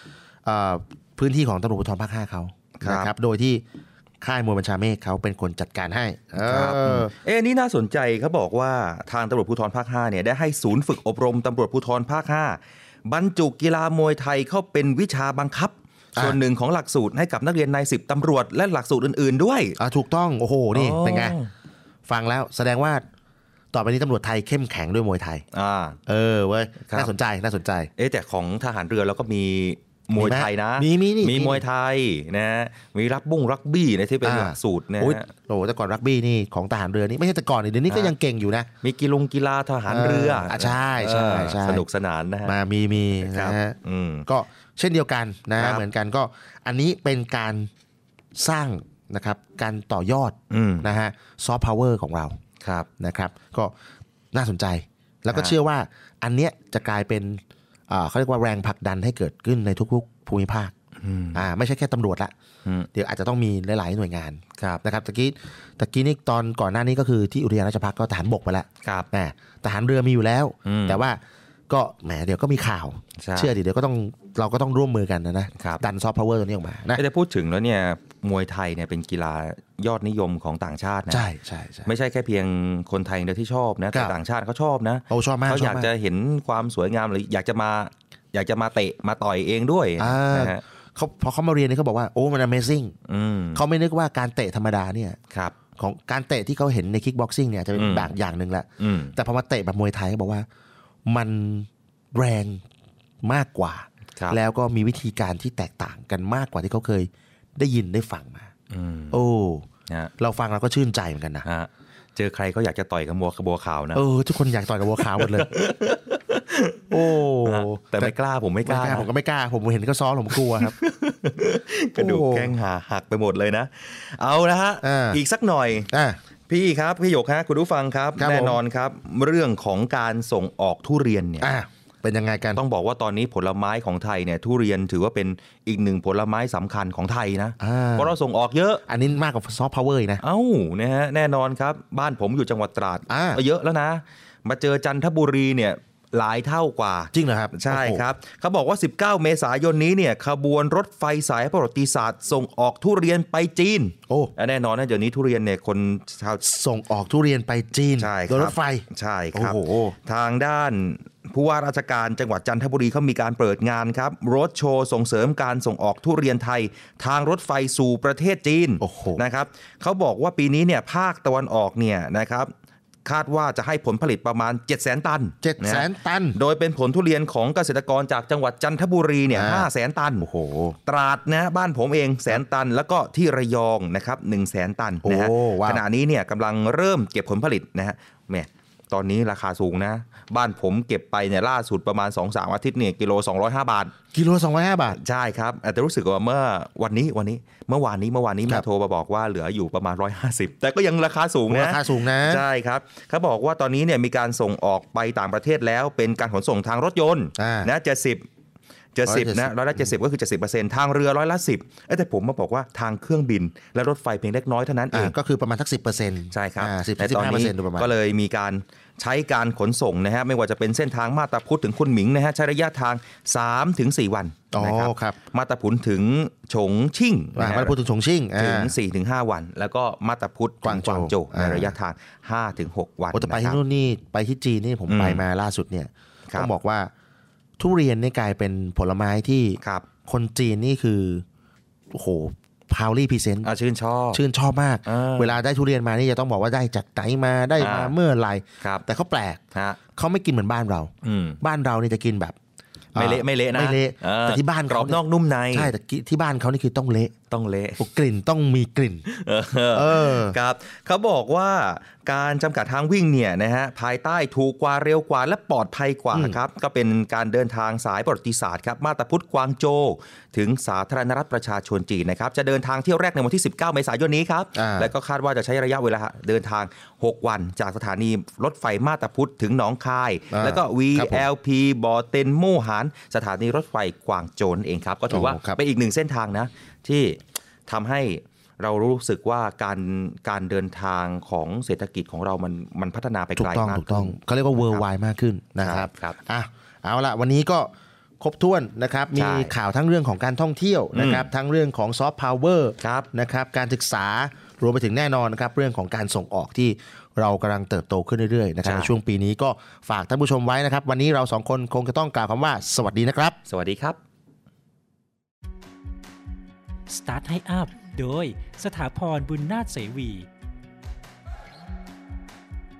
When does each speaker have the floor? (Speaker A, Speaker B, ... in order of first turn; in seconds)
Speaker A: 0.4-3.6, 4.2-7.1, 19.8-21.4, 22.1-23.0, 23.7-25.4, 26.1-27.9, 30.1-31.6, 34.2-38.7, 39.9-41.8, 42.4-43.8, 44.3-47.7, 48.3-52.4, 53.0-53.7, 54.3-60.7, 61.3-62.3, 62.9-77.0, 81.1-81.9, 85.1-85.9, 90.0-92.9, 93.5-95.2, 95.8-100.5, 101.1-102.6, 103.2-108.5, 109.1-109.7, 110.2-111.5, 113.9-115.5, 116.9-118.1, 118.6-120.8, 122.0-122.5, 124.8-125.2, 125.9-126.2, 128.2-128.6, 131.4-132.6, 137.6-138.1, 138.9-140.2, 143.1-143.4, 147.1-148.0, 156.4-159.9, 168.8-169.2, 175.4-176.4, 179.3-179.7, 180.2-180.8, 185.0-185.8, 194.1-195.0, 201.5-202.4, 207.4-207.7, 209.1-209.9, 214.9-217.9, 224.5-225.2, 227.3-228.7, 230.6-231.7, 233.1-236.9, 237.6-241.2, 241.9-243.5, 244.1-249.4, 249.9-252.3, 252.9-255.0, 255.5-257.1, 257.8-259.0, 259.7-260.4, 266.1-266.4, 274.5-274.9, 280.3-281.2, 285.1-285.6, 293.4-313.4
Speaker B: 2.8-3.1, 6.4-19.8, 20.7-21.5, 25.5-26.0, 28.0-35.3, 38.8-42.5, 43.2-44.2, 45.6-45.8, 50.5-50.9, 52.6-52.9, 61.0-61.5, 68.8-69.1, 70.6-71.0, 73.2-73.5, 75.6-75.8, 77.0-81.2, 81.8-90.6, 93.1-93.6, 97.8-98.1, 98.8-99.1, 108.7-109.2, 111.4-114.0, 115.1-119.1, 120.4-125.9, 126.5-131.5, 132.5-138.8, 140.2-156.4, 158.0-172.5, 173.1-180.3, 180.9-193.9, 194.9-208.2, 208.9-215.1, 216.3-227.7, 228.4-233.6, 234.9-235.2, 239.6-239.9, 243.4-244.2, 244.8-245.4, 247.6-247.9, 249.5-249.8, 251.0-251.4, 252.9-255.7, 257.3-257.8, 259.1-294.1, 295.6-296.1, 299.1-299.5, 300.9-301.3, 302.8-303.1, 308.6-308.9, 313.5-314.0
Speaker C: 316.9-320.3